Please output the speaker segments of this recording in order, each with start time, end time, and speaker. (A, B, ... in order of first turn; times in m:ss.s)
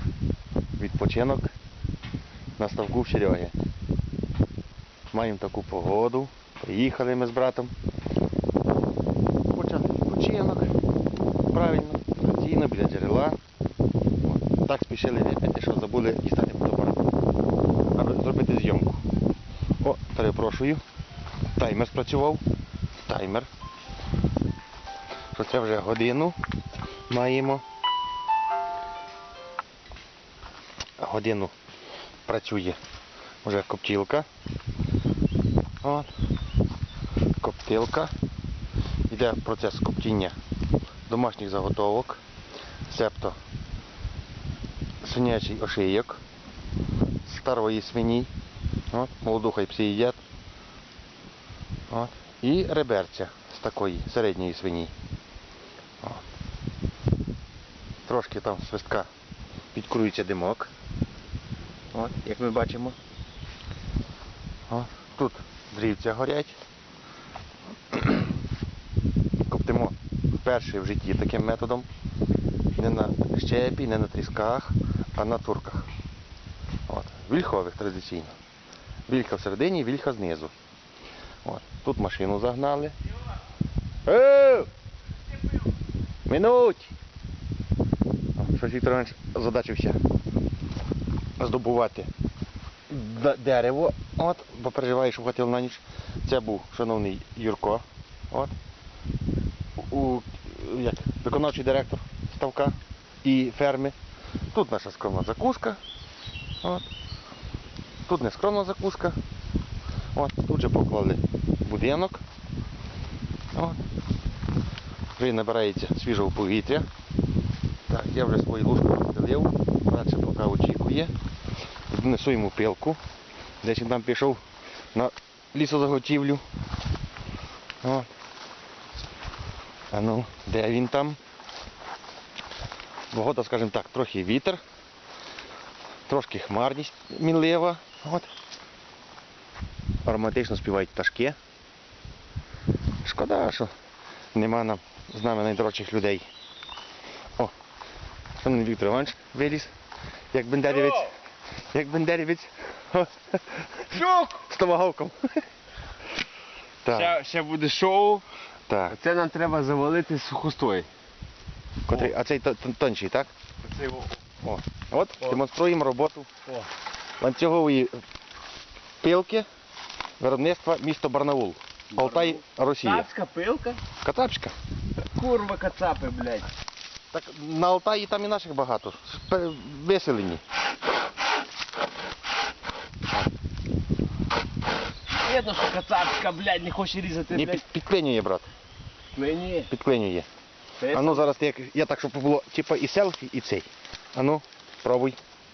0:00.8-0:01.5 A
0:02.6-0:03.5 A
0:05.1-0:07.7 A
0:09.5-0:10.7 A
0:11.5-0:13.4 A
0:14.3-0:17.0 A
0:17.9-0:19.0 A
0:19.8-0:20.8 A
0:21.6-0:22.4 A
0:23.1-0:23.5 A
0:25.3-0:26.4 A
0:27.1-0:27.6 A
0:31.0-0:31.5 A
0:32.3-0:32.8 A
0:33.4-0:34.2 A
0:35.8-0:36.1 A
0:37.4-0:38.1 A
0:39.1-0:40.4 A
0:41.1-0:42.2 A
0:42.9-0:43.4 A
0:45.0-0:46.2 A
0:47.2-0:48.3 A
0:48.9-0:50.2 A
0:51.9-0:54.9 A
0:58.0-0:59.1 A
0:59.7-1:00.7 A
1:01.9-1:03.0 A
1:04.7-1:06.6 A
1:09.5-1:11.9 A
1:12.8-1:15.9 A
1:16.9-1:18.3 A
1:19.1-1:20.5 A
1:21.4-1:22.9 A
1:24.0-1:24.7 A
1:26.3-1:26.9 A
1:28.4-1:30.0 A
1:31.4-1:32.1 A
1:32.9-1:38.5 A
1:39.8-1:43.9 A
1:44.5-1:45.8 A
1:48.1-1:49.2 A
1:50.1-1:52.2 A
1:53.5-1:53.8 A
1:55.2-1:56.9 A
1:57.9-2:01.1 A
2:01.9-2:03.0 A
2:03.6-2:04.4 A
2:04.9-2:06.4 A
2:07.8-2:08.1 A
2:09.9-2:11.2 A
2:13.1-2:14.6 A
2:16.1-2:18.3 A
2:20.0-2:21.4 A
2:23.0-2:23.7 A
2:24.3-2:26.2 A
2:28.4-2:29.7 A
2:30.3-2:31.1 A
2:30.7-2:31.1 B
2:31.7-2:35.4 A
2:33.9-2:34.4 B
2:36.8-2:37.2 A
2:36.9-2:38.2 B
2:38.7-2:39.0 A
2:38.9-2:40.9 B
2:41.9-2:43.3 A
2:43.6-2:44.2 B
2:44.4-2:46.3 A
2:47.2-2:48.0 A
2:49.0-2:49.5 A
2:50.2-2:53.1 A
2:51.9-2:53.8 B
2:54.0-2:54.5 A
2:55.1-2:56.5 B
2:57.1-3:00.4 A
3:05.1-3:07.6 B
3:07.3-3:08.5 A
3:09.1-3:09.7 B
3:09.7-3:10.3 A
3:10.8-3:11.3 B
3:10.9-3:15.2 A